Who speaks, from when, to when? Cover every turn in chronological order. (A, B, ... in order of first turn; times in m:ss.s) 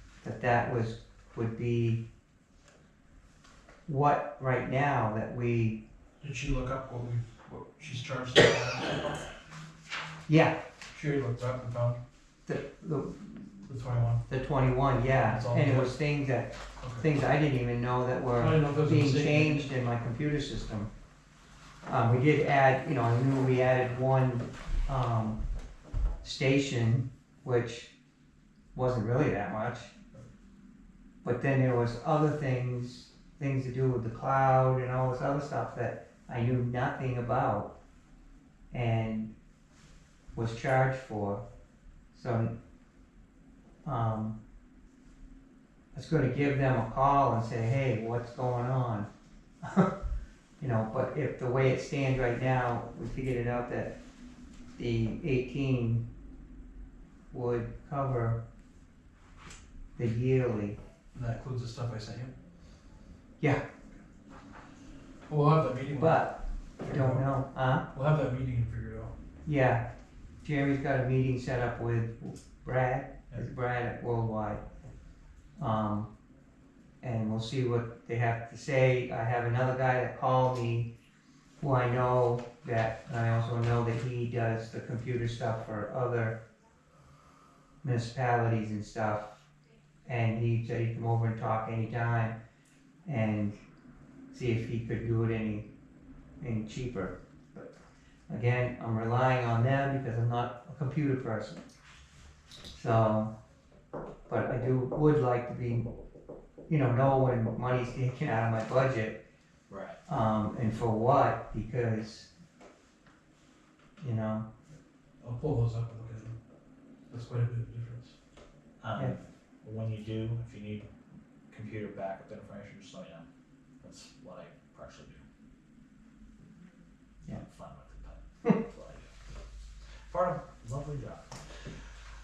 0:00.2-0:02.0 A
0:03.9-0:05.8 A
0:06.2-0:09.2 B
0:10.3-0:10.6 A
0:10.9-0:12.0 B
0:12.5-0:13.7 A
0:13.7-0:14.2 B
0:14.3-0:20.9 A
0:15.2-0:16.0 B
0:16.8-0:17.1 B
0:18.4-0:19.7 B
0:21.9-0:25.4 A
0:26.2-0:27.9 A
0:28.8-0:29.9 A
0:31.2-0:37.7 A
0:38.7-0:39.3 A
0:40.4-0:41.4 A
0:42.1-0:42.5 A
0:43.8-0:44.4 A
0:45.9-0:49.1 A
0:49.6-0:49.9 A
0:50.6-0:53.9 A
0:54.8-0:56.0 A
0:57.3-0:58.4 A
1:00.0-1:00.8 A
1:01.2-1:02.3 B
1:05.3-1:06.2 B
1:05.9-1:07.8 A
1:06.8-1:07.2 B
1:07.9-1:09.1 B
1:09.4-1:09.8 A
1:10.4-1:14.6 A
1:15.6-1:16.1 A
1:17.0-1:20.9 A
1:21.6-1:26.4 A
1:27.8-1:29.3 A
1:30.0-1:32.4 A
1:33.0-1:33.6 A
1:34.3-1:35.7 A
1:36.4-1:37.7 A
1:38.3-1:41.6 A
1:42.7-1:43.3 A
1:44.3-1:45.9 A
1:46.7-1:49.2 A
1:49.7-1:50.0 C
1:50.1-1:52.3 A
1:54.0-1:54.5 A
1:55.2-1:56.4 B
1:57.1-1:58.2 B
1:58.8-2:00.9 C
2:01.5-2:03.3 C
2:03.8-2:05.2 C
2:07.3-2:09.1 C
2:10.1-2:11.8 C